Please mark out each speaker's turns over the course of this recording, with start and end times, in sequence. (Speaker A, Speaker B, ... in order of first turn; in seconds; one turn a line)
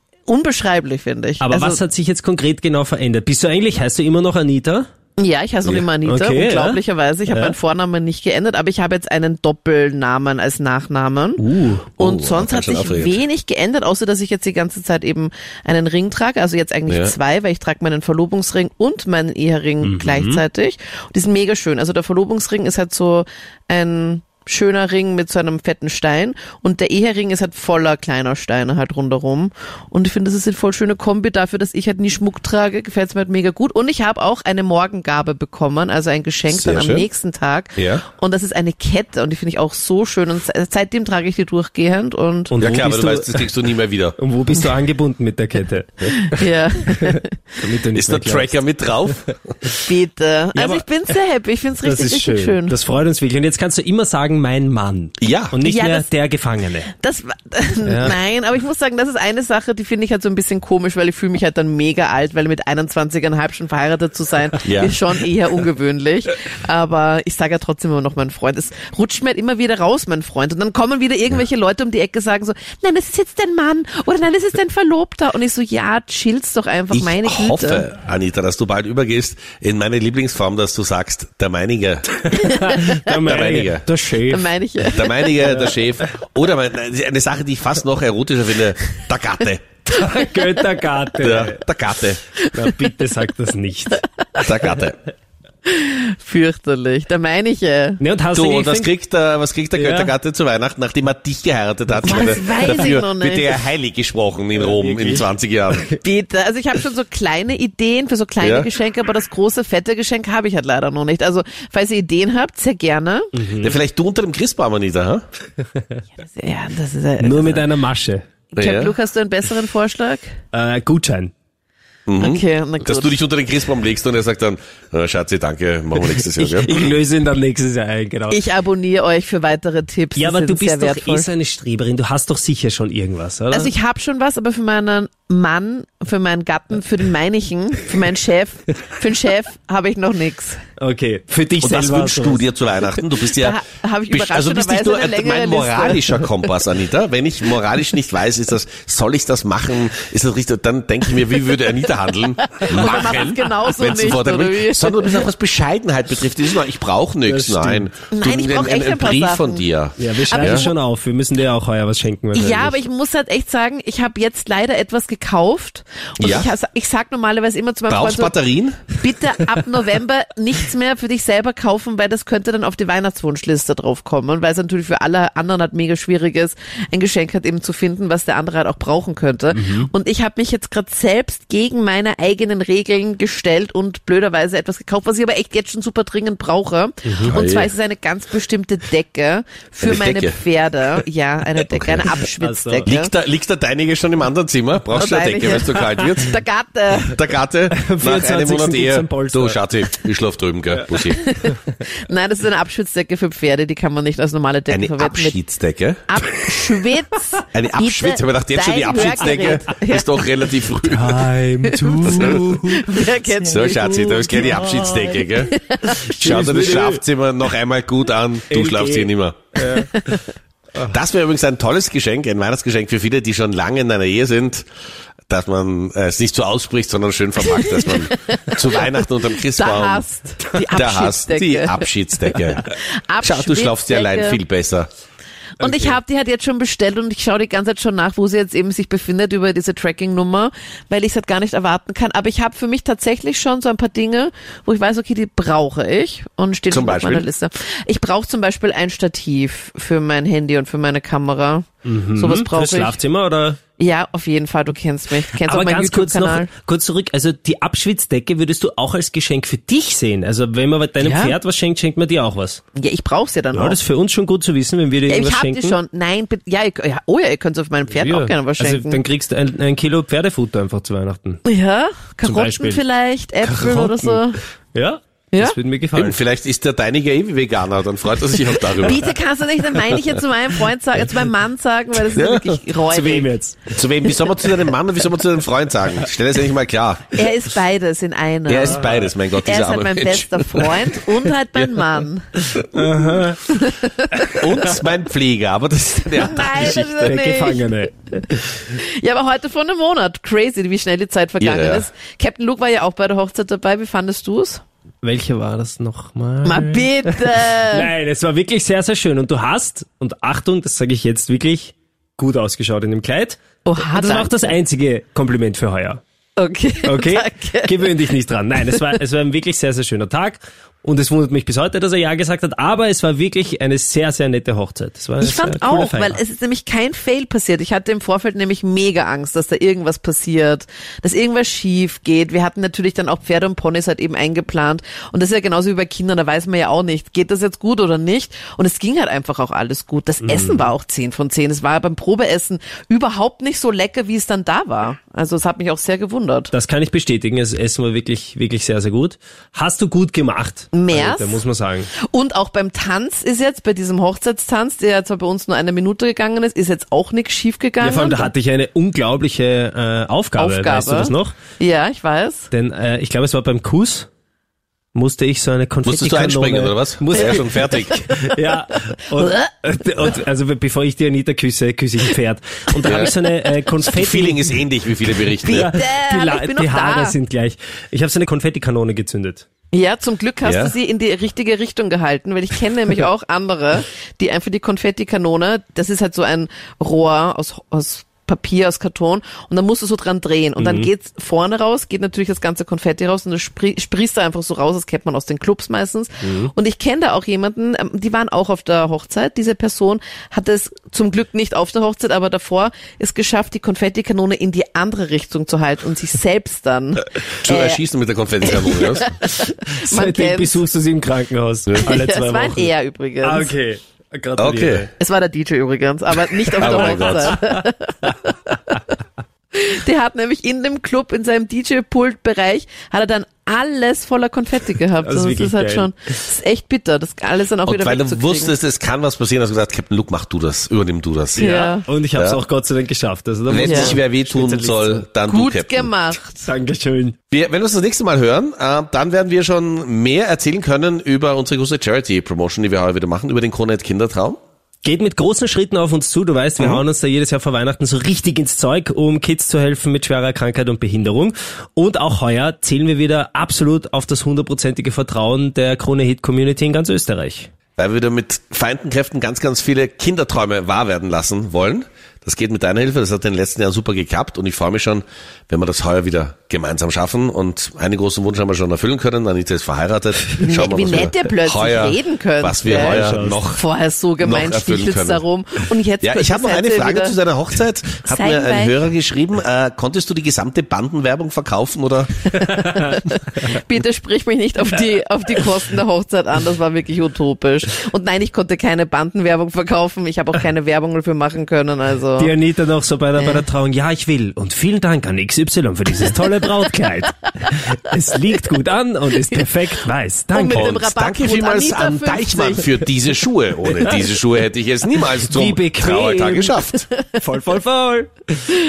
Speaker A: 0.2-1.8
Speaker B: 1.4-4.8
Speaker A: 5.2-11.4
Speaker B: 6.0-7.5
Speaker B: 11.4-11.9
Speaker C: 12.0-13.2
Speaker A: 12.0-42.6
Speaker C: 16.9-17.1
Speaker B: 19.8-20.4
Speaker C: 36.5-37.1
Speaker C: 37.8-38.0
Speaker B: 42.5-43.5
Speaker C: 42.6-44.1
Speaker B: 44.2-46.4
Speaker A: 46.2-47.4
Speaker B: 47.0-48.5
Speaker C: 47.9-49.5
Speaker A: 49.8-52.8
Speaker B: 50.5-50.8
Speaker B: 51.8-56.9
Speaker C: 55.2-55.5
Speaker A: 55.6-56.1
Speaker A: 57.0-77.9
Speaker B: 57.9-58.1
Speaker C: 64.6-65.0
Speaker C: 76.9-82.1
Speaker B: 82.3-84.5
Speaker A: 82.4-83.0
Speaker C: 83.2-83.8
Speaker A: 84.3-85.1
Speaker C: 84.8-89.7
Speaker B: 89.9-91.6
Speaker C: 91.2-92.2
Speaker B: 92.5-94.0
Speaker C: 94.4-95.0
Speaker A: 95.7-98.0
Speaker B: 98.0-98.9
Speaker C: 98.3-105.9
Speaker B: 99.7-100.1
Speaker A: 102.0-103.5
Speaker B: 102.1-102.8
Speaker B: 104.5-106.0
Speaker A: 106.0-113.3
Speaker C: 108.4-108.7
Speaker B: 113.3-113.8
Speaker C: 113.6-115.2
Speaker A: 116.2-117.7
Speaker B: 117.2-118.2
Speaker A: 118.5-120.3
Speaker C: 118.6-118.9
Speaker B: 120.5-121.3
Speaker C: 122.1-126.9
Speaker A: 122.2-123.1
Speaker B: 126.3-128.4
Speaker A: 128.3-131.3
Speaker B: 130.2-133.7
Speaker A: 133.5-140.6
Speaker B: 140.8-142.4
Speaker C: 141.6-143.6
Speaker A: 143.3-146.1
Speaker C: 144.1-160.7
Speaker A: 152.5-155.2
Speaker B: 157.2-157.9
Speaker A: 158.1-159.7
Speaker B: 160.0-162.8
Speaker A: 160.2-160.7
Speaker A: 162.3-168.3
Speaker C: 166.2-166.5
Speaker C: 167.9-168.8
Speaker A: 168.9-193.1
Speaker B: 179.5-179.9
Speaker B: 187.0-187.4
Speaker C: 187.3-187.7
Speaker C: 189.8-190.4
Speaker C: 191.6-192.1
Speaker B: 192.2-192.9
Speaker C: 192.8-196.4
Speaker A: 194.9-197.2
Speaker C: 196.9-201.2
Speaker B: 197.7-199.6
Speaker B: 200.7-201.0
Speaker A: 201.1-205.4
Speaker C: 204.7-206.0
Speaker A: 206.1-210.1
Speaker C: 207.5-211.2
Speaker B: 210.9-215.3
Speaker A: 211.7-214.2
Speaker C: 212.1-212.4
Speaker C: 213.4-215.5
Speaker A: 215.5-216.2
Speaker B: 215.8-217.0
Speaker C: 216.2-219.4
Speaker B: 218.5-220.2
Speaker C: 220.9-224.7
Speaker C: 225.3-230.0
Speaker A: 227.5-228.9
Speaker A: 229.5-231.9
Speaker C: 230.7-232.7
Speaker A: 232.6-234.4
Speaker C: 233.2-234.9
Speaker A: 235.6-253.0
Speaker B: 235.6-235.9
Speaker C: 246.7-247.3
Speaker B: 251.8-253.6
Speaker A: 253.8-256.5
Speaker B: 255.4-262.6
Speaker A: 261.0-261.4
Speaker A: 262.7-263.8
Speaker B: 263.5-265.8
Speaker A: 265.1-269.0
Speaker B: 267.9-271.4
Speaker A: 271.4-274.4
Speaker B: 272.2-272.8
Speaker B: 273.4-274.2
Speaker B: 274.7-276.2
Speaker C: 275.9-279.0
Speaker A: 278.8-283.3
Speaker C: 282.1-282.6
Speaker B: 282.9-283.8
Speaker C: 283.7-287.2
Speaker A: 287.1-292.3
Speaker C: 288.5-291.9
Speaker B: 292.5-293.6
Speaker A: 293.5-294.3
Speaker B: 294.1-294.7
Speaker C: 294.4-297.2
Speaker A: 296.2-297.6
Speaker B: 296.4-297.9
Speaker A: 298.7-304.6
Speaker C: 301.4-301.9
Speaker B: 305.0-313.4
Speaker A: 306.4-307.9
Speaker A: 313.6-314.5
Speaker B: 313.9-316.0
Speaker A: 316.4-317.8
Speaker B: 316.8-326.2
Speaker A: 325.2-346.5
Speaker B: 340.2-340.7
Speaker B: 346.5-351.9
Speaker A: 350.7-351.4
Speaker A: 352.1-358.3
Speaker B: 357.8-361.4
Speaker A: 360.4-362.5
Speaker B: 362.5-364.1
Speaker B: 364.9-374.6
Speaker C: 365.8-367.9
Speaker A: 367.1-368.0
Speaker A: 369.2-369.4
Speaker C: 372.8-373.1
Speaker C: 373.9-375.7
Speaker A: 375.4-377.2
Speaker B: 375.4-379.4
Speaker A: 379.7-407.8
Speaker C: 380.4-380.7
Speaker B: 390.6-390.9
Speaker B: 396.2-396.5
Speaker C: 407.2-409.1
Speaker A: 408.4-410.6
Speaker B: 409.3-412.7
Speaker A: 411.8-413.5
Speaker B: 413.2-414.9
Speaker C: 414.4-414.9
Speaker A: 415.0-418.3
Speaker B: 416.6-418.8
Speaker C: 416.6-417.3
Speaker A: 419.5-428.5
Speaker B: 425.0-425.9
Speaker C: 427.6-431.6
Speaker A: 431.4-431.9
Speaker B: 431.4-435.1
Speaker C: 432.1-432.4
Speaker C: 433.5-435.9
Speaker A: 433.6-434.0
Speaker A: 435.3-436.3
Speaker B: 436.2-437.1
Speaker C: 437.3-444.4
Speaker B: 444.8-457.5
Speaker C: 446.6-446.8
Speaker C: 457.8-473.6
Speaker A: 470.4-477.2
Speaker B: 472.6-473.5
Speaker C: 474.2-475.2
Speaker C: 476.0-482.4
Speaker A: 478.0-478.7
Speaker A: 482.4-492.3
Speaker B: 482.4-482.8
Speaker B: 492.2-500.8
Speaker A: 493.1-493.4
Speaker A: 500.3-502.7
Speaker C: 500.3-506.9
Speaker B: 503.8-504.0
Speaker B: 505.2-506.6
Speaker B: 507.1-508.4